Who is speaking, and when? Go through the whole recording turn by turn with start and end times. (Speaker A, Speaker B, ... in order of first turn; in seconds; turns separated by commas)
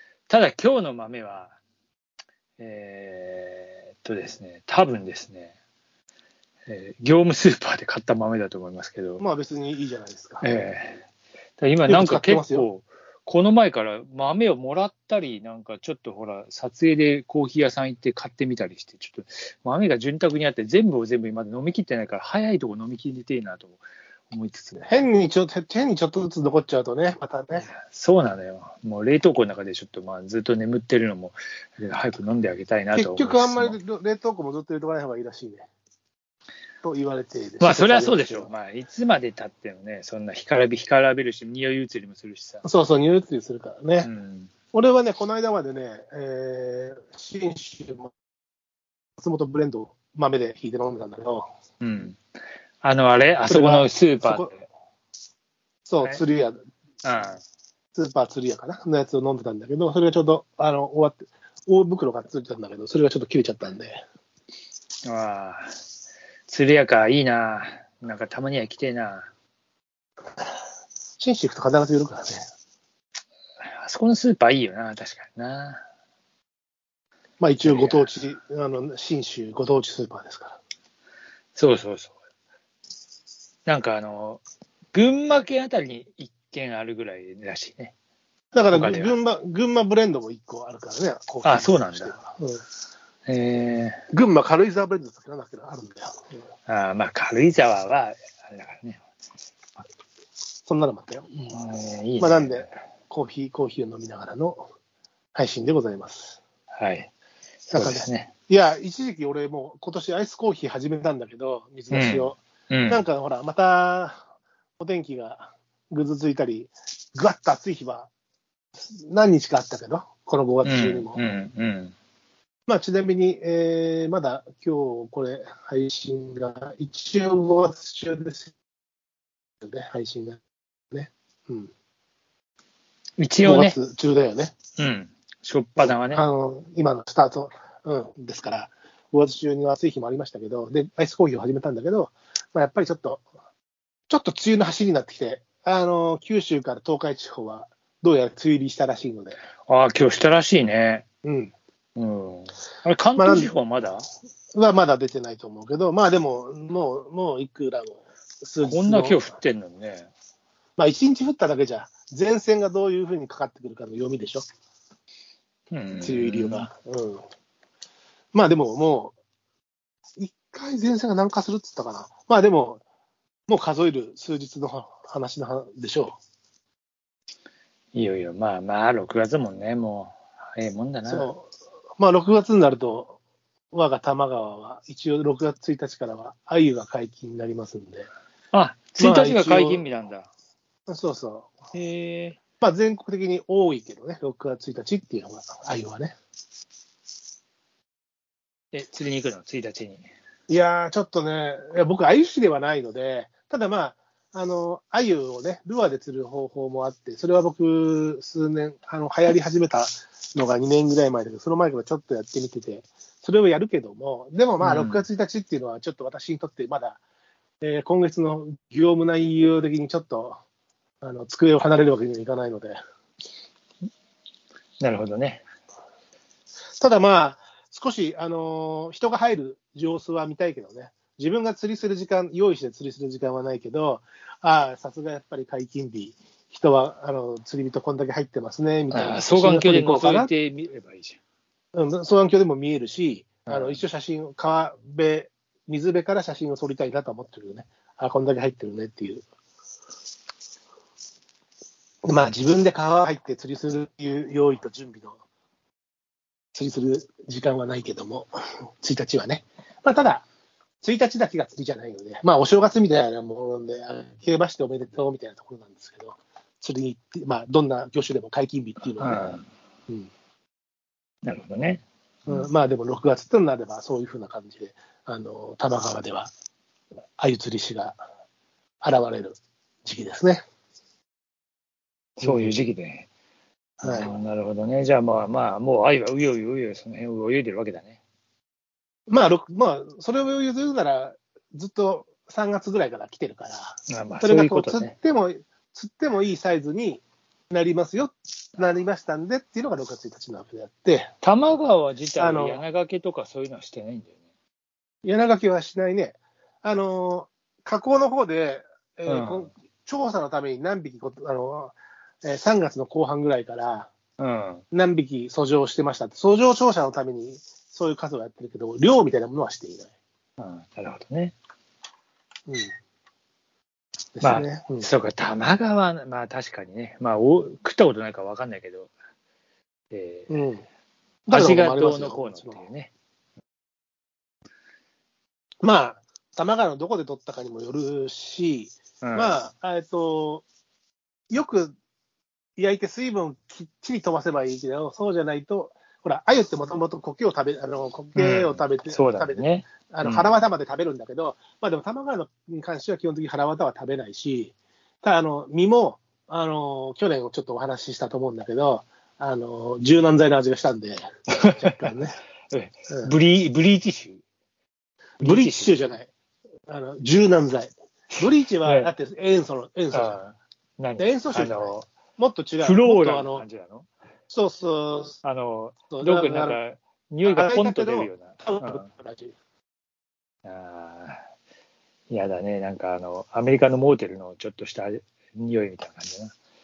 Speaker A: 0.3-1.5, Speaker A: 2.6-5.5, Speaker A: 6.7-9.2, Speaker B: 9.2-10.5, Speaker A: 10.4-11.1, Speaker A: 11.6-25.1, Speaker B: 11.9-12.7, Speaker B: 24.9-27.7, Speaker A: 27.6-33.8, Speaker B: 32.9-35.7, Speaker B: 36.8-38.5, Speaker A: 37.6-42.7, Speaker B: 42.6-44.1, Speaker A: 44.0-44.5, Speaker B: 44.7-48.1, Speaker B: 49.2-51.5, Speaker A: 51.8-52.2, Speaker A: 52.8-54.7, Speaker B: 53.5-54.5, Speaker B: 55.9-56.6, Speaker A: 57.0-57.4, Speaker B: 58.0-64.0, Speaker A: 65.1-65.7, Speaker A: 66.5-69.3, Speaker B: 71.2-72.4, Speaker A: 73.8-75.8, Speaker B: 77.4-80.6, Speaker A: 77.6-78.1, Speaker A: 81.6-82.2, Speaker A: 83.7-87.9, Speaker B: 88.5-92.6, Speaker A: 88.7-89.2, Speaker A: 91.4-92.2, Speaker A: 93.3-94.0, Speaker B: 94.1-96.3, Speaker A: 96.7-99.0, Speaker B: 100.7-101.5, Speaker A: 101.5-102.7, Speaker B: 102.2-104.7, Speaker B: 105.3-106.4, Speaker A: 106.8-107.1, Speaker A: 107.7-108.3, Speaker B: 107.7-114.2, Speaker A: 111.9-113.0, Speaker B: 114.8-118.1, Speaker B: 118.8-121.2, Speaker A: 120.6-122.0, Speaker B: 122.7-128.5, Speaker B: 129.6-130.4, Speaker B: 130.9-131.7, Speaker A: 133.2-133.8, Speaker B: 133.4-134.5, Speaker A: 134.8-136.2, Speaker B: 135.8-143.2, Speaker B: 144.1-149.4, Speaker A: 149.7-151.1, Speaker B: 151.2-151.5, Speaker A: 152.0-154.1, Speaker B: 153.2-153.5, Speaker B: 154.5-159.3, Speaker A: 158.6-160.1, Speaker B: 160.8-164.4, Speaker A: 165.7-166.7, Speaker B: 166.0-167.2, Speaker B: 168.3-169.2, Speaker B: 170.2-172.8, Speaker B: 173.5-176.2, Speaker A: 177.9-181.3, Speaker B: 181.1-183.2, Speaker B: 183.7-188.1, Speaker A: 188.5-190.3, Speaker B: 189.0-189.8, Speaker B: 190.9-191.5, Speaker A: 191.7-192.4, Speaker B: 192.6-196.1, Speaker A: 198.7-200.1, Speaker B: 200.5-217.0, Speaker A: 214.6-215.0, Speaker B: 217.6-220.4, Speaker B: 221.0-222.8, Speaker A: 224.8-225.4, Speaker B: 226.8-240.3, Speaker A: 238.9-241.2, Speaker B: 241.7-249.2, Speaker A: 243.5-243.8, Speaker B: 252.1-255.2, Speaker B: 256.6-258.3, Speaker B: 258.8-260.3, Speaker B: 260.8-270.1, Speaker A: 269.0-269.5, Speaker A: 271.2-271.8, Speaker B: 272.3-276.3, Speaker B: 277.2-278.0, Speaker B: 278.8-280.4, Speaker A: 282.2-283.1, Speaker B: 282.2-282.5, Speaker A: 283.8-288.0, Speaker B: 283.8-284.1, Speaker B: 289.1-301.1, Speaker A: 293.9-294.9, Speaker A: 301.2-304.1, Speaker B: 302.2-302.6, Speaker B: 305.1-313.9, Speaker A: 309.1-309.5, Speaker A: 314.2-314.6, Speaker B: 314.7-319.9, Speaker A: 320.4-321.4, Speaker B: 324.2-324.9, Speaker A: 324.2-328.9, Speaker A: 329.9-330.4, Speaker B: 330.3-330.6, Speaker B: 331.3-332.6, Speaker A: 331.3-332.9, Speaker B: 335.6-340.5, Speaker A: 339.0-339.4, Speaker B: 341.3-341.8, Speaker B: 342.6-362.2, Speaker A: 348.2-350.3, Speaker A: 361.4-361.9, Speaker A: 362.5-364.2, Speaker B: 362.9-363.1, Speaker A: 365.2-365.8, Speaker B: 365.2-366.1, Speaker B: 366.7-370.2, Speaker A: 368.2-368.9, Speaker A: 369.9-371.9, Speaker B: 371.0-373.5, Speaker A: 372.6-373.9, Speaker B: 374.3-375.2, Speaker A: 375.2-378.9, Speaker B: 375.9-376.6, Speaker B: 377.2-379.3, Speaker A: 380.4-381.2, Speaker A: 382.1-386.3